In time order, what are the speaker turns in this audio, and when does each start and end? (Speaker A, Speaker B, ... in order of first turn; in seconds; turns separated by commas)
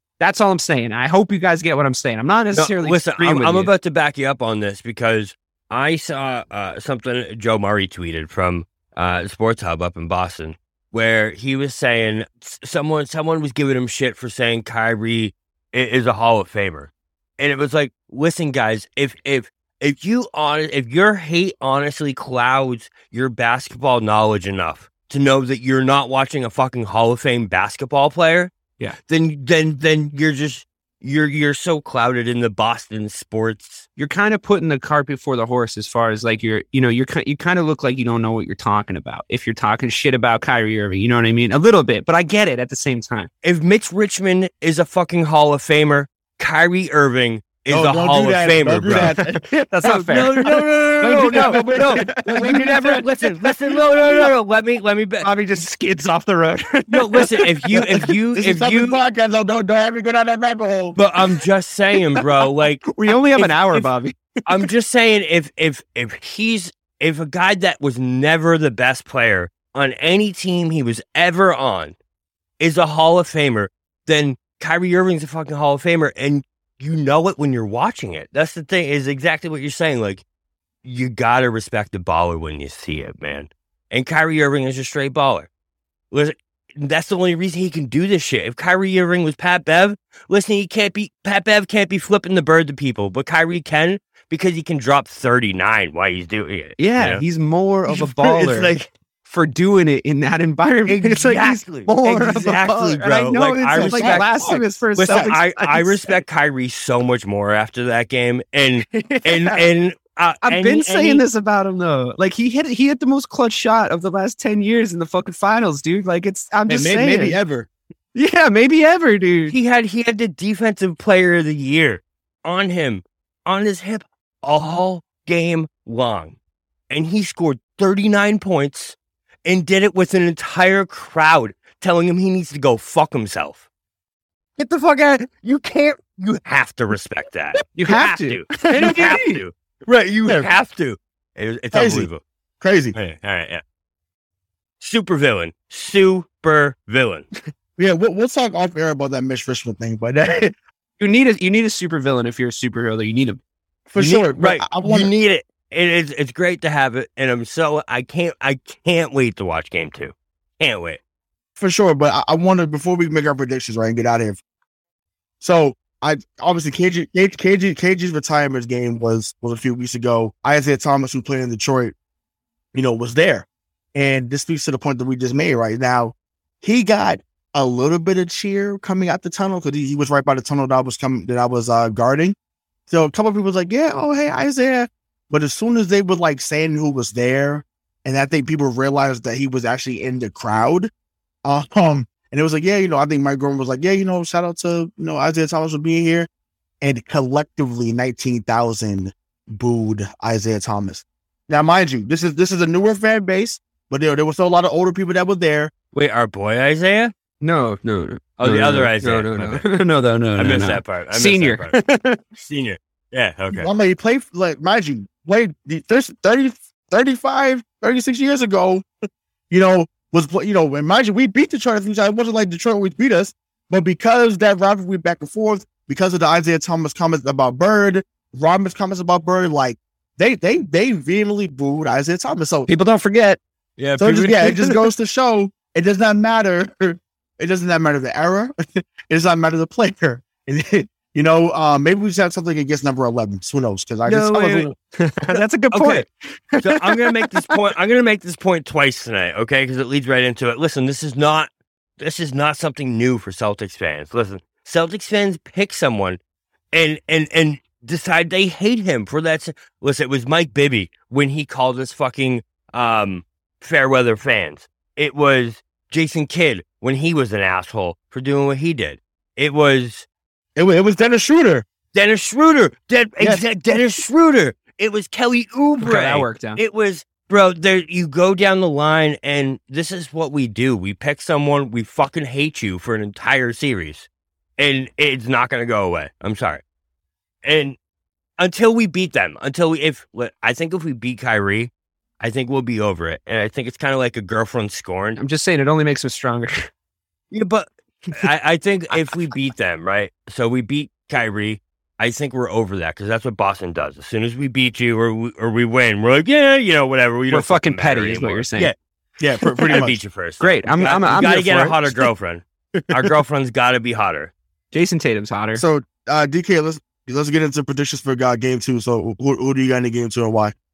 Speaker A: 0.2-3.7, Speaker B: 2.5-33.9, Speaker A: 34.0-43.3, Speaker B: 43.4-49.2, Speaker C: 47.7-49.4, Speaker A: 48.9-50.5, Speaker B: 49.8-55.3, Speaker C: 50.5-53.0, Speaker A: 51.3-53.0, Speaker A: 55.2-58.1, Speaker B: 56.9-59.0, Speaker C: 58.3-61.0, Speaker B: 60.9-63.9, Speaker A: 62.8-64.4, Speaker B: 64.5-71.9, Speaker B: 72.6-80.2, Speaker B: 80.8-85.5, Speaker B: 86.1-97.2, Speaker A: 96.8-98.7, Speaker B: 97.9-98.9, Speaker A: 99.2-106.2, Speaker B: 100.9-111.2, Speaker C: 103.7-105.3, Speaker A: 108.9-109.7, Speaker A: 110.4-117.4, Speaker C: 116.7-117.7, Speaker A: 118.1-119.5, Speaker B: 119.5-126.4, Speaker B: 126.9-133.7, Speaker B: 134.6-142.2, Speaker A: 137.7-139.4, Speaker C: 141.7-142.1, Speaker C: 142.6-142.9, Speaker B: 142.9-143.6, Speaker B: 144.8-147.2, Speaker C: 147.8-150.5, Speaker A: 151.0-153.4, Speaker C: 153.9-155.1, Speaker A: 154.0-154.3, Speaker B: 154.3-161.0, Speaker C: 161.6-164.4, Speaker C: 165.4-171.9, Speaker C: 172.7-182.3, Speaker C: 182.9-190.9, Speaker C: 191.4-196.3, Speaker C: 196.8-205.7, Speaker B: 205.9-207.1, Speaker A: 207.4-212.2, Speaker B: 208.4-209.7, Speaker B: 210.4-211.8, Speaker B: 212.4-213.7, Speaker C: 213.5-218.8, Speaker C: 219.5-232.7, Speaker A: 232.7-233.4, Speaker B: 233.8-234.6, Speaker C: 234.0-244.7, Speaker B: 244.1-244.7, Speaker A: 244.3-247.5, Speaker B: 245.7-246.0, Speaker B: 246.6-256.2, Speaker B: 256.7-270.1, Speaker C: 270.6-271.6, Speaker B: 271.9-286.6, Speaker C: 273.2-273.4, Speaker A: 275.8-276.6, Speaker B: 287.4-287.8, Speaker B: 288.4-295.2, Speaker A: 295.2-296.7, Speaker B: 297.3-308.8, Speaker A: 307.3-308.7, Speaker C: 309.2-310.0, Speaker A: 309.4-309.8, Speaker B: 309.6-314.3, Speaker A: 310.4-312.1, Speaker A: 314.7-315.6, Speaker C: 315.5-320.5